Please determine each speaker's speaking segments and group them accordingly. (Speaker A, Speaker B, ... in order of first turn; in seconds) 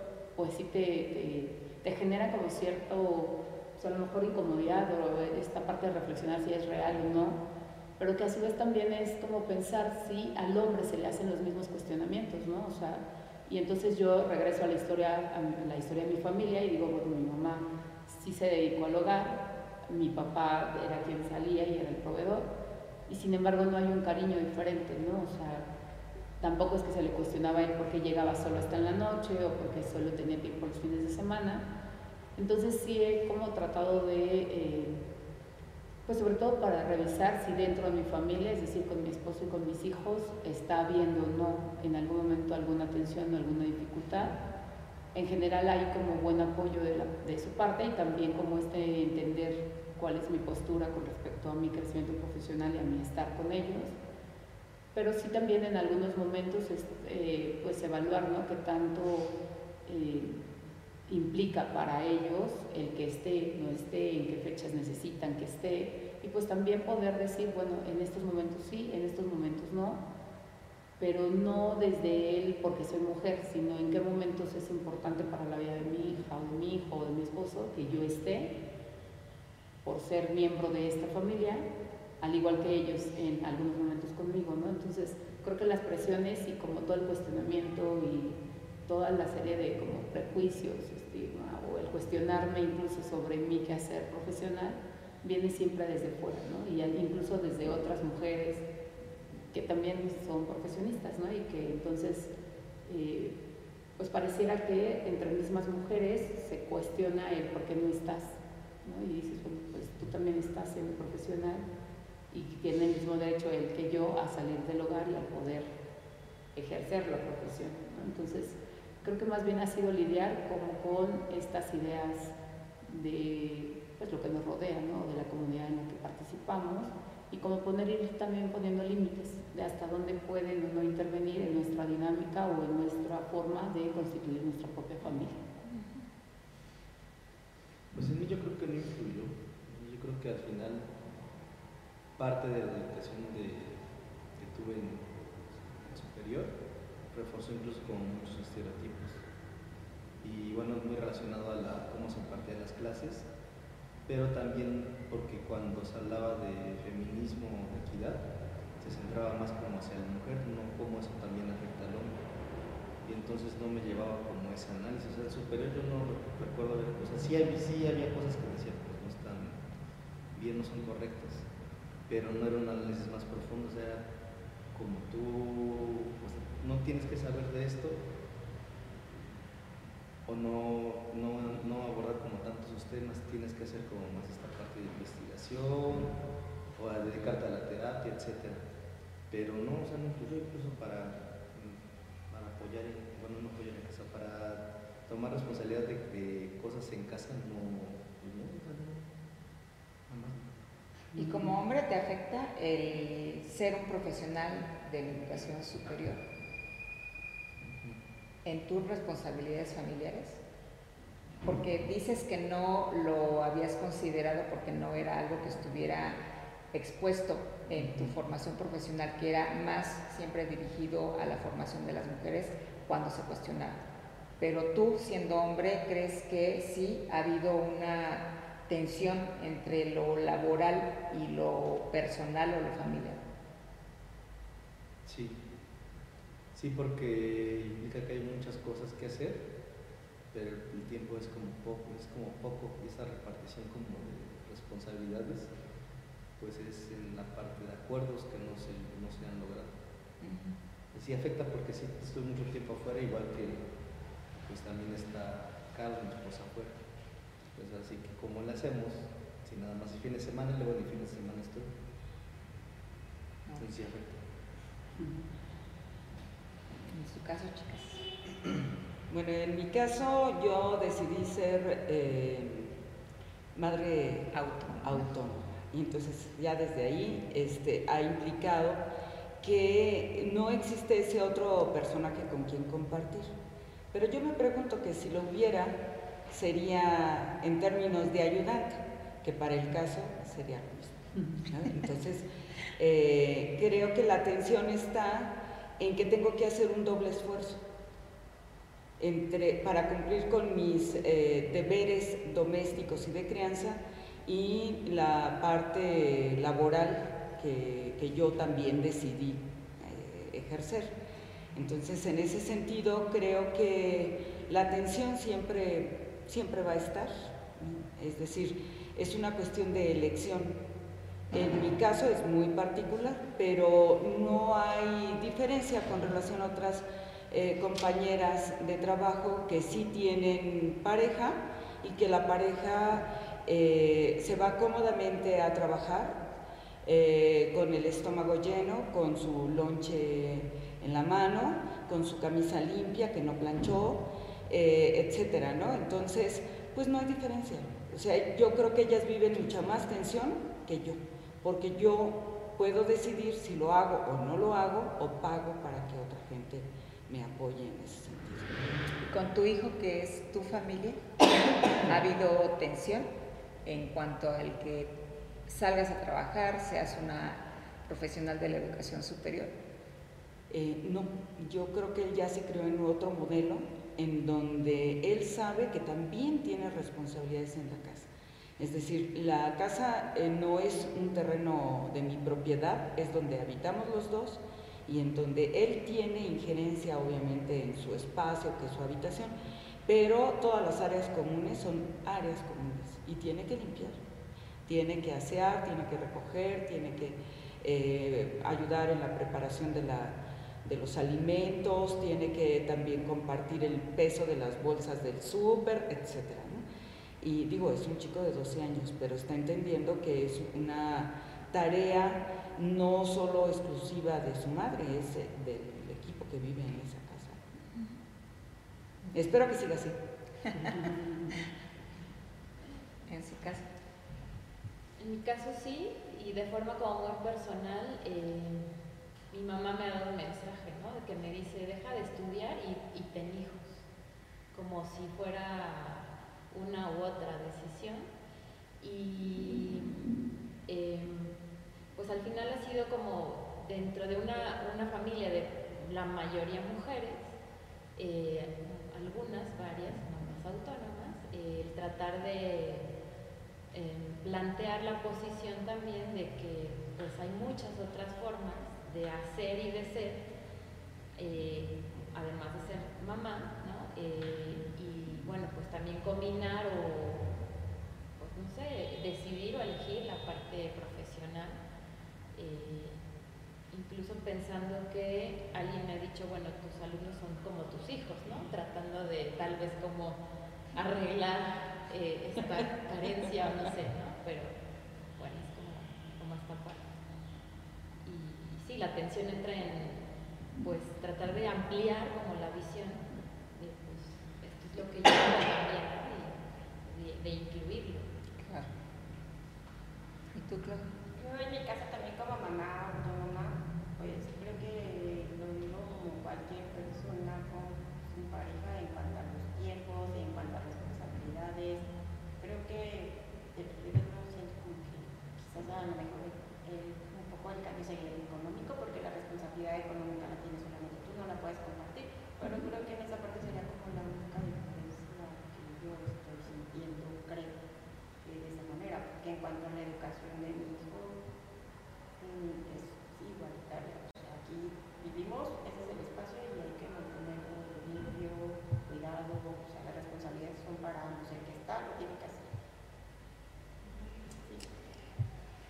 Speaker A: 0.3-7.4, 8.0-22.5, 23.1-25.7, 26.4-31.6, 32.4-35.0, 36.0-44.4, 45.1-53.9, 54.9-60.4, 61.1-70.0, 71.0-78.5, 79.8-81.7, 82.2-98.6, 99.5-102.3, 102.8-103.4, 104.0-111.6, 112.3-115.7, 116.5-135.4, 420.8-421.3
Speaker B: 135.6-136.1, 201.2-206.2, 208.4-210.4, 211.4-216.2, 216.7-223.8, 224.4-233.2, 250.2-250.6, 266.9-268.0, 274.3-275.0, 359.1-361.1, 361.7-363.1, 363.6-369.5, 417.7-418.0, 423.1-423.7, 498.4-498.7, 500.3-500.9
Speaker C: 137.9-140.9, 142.2-143.8, 144.3-146.5, 147.1-149.2, 150.2-153.2, 154.1-158.2, 158.8-162.2, 163.0-169.6, 170.3-171.5, 172.1-174.1, 174.7-178.0, 180.2-186.1, 186.8-188.6, 189.3-191.8, 192.3-199.0, 200.1-200.5, 207.7-208.0, 235.1-235.4, 236.5-239.5, 240.3-245.5, 246.4-249.7, 250.9-253.6, 254.4-256.8, 257.5-261.7, 263.6-264.2
Speaker D: 269.1-272.7, 273.5-278.8, 279.4-283.3, 283.9-297.6, 299.0-310.9, 311.5-320.5, 321.3-336.2, 336.8-358.9, 370.5-389.3, 389.9-394.0, 394.6-406.6, 407.2-417.4, 419.1-420.0
Speaker E: 425.0-428.7, 429.3-433.8, 434.5-438.1, 438.8-439.9, 440.7-441.3, 441.9-447.2, 447.9-452.9, 453.7-460.2, 461.1-467.3, 468.2-471.6, 472.4-473.0, 473.7-480.2, 480.7-484.5, 485.2-486.9, 488.1-490.1, 490.6-493.0, 493.6-498.1
Speaker F: 501.1-511.9, 512.4-527.6, 528.2-531.2, 532.2-542.5, 543.8-544.8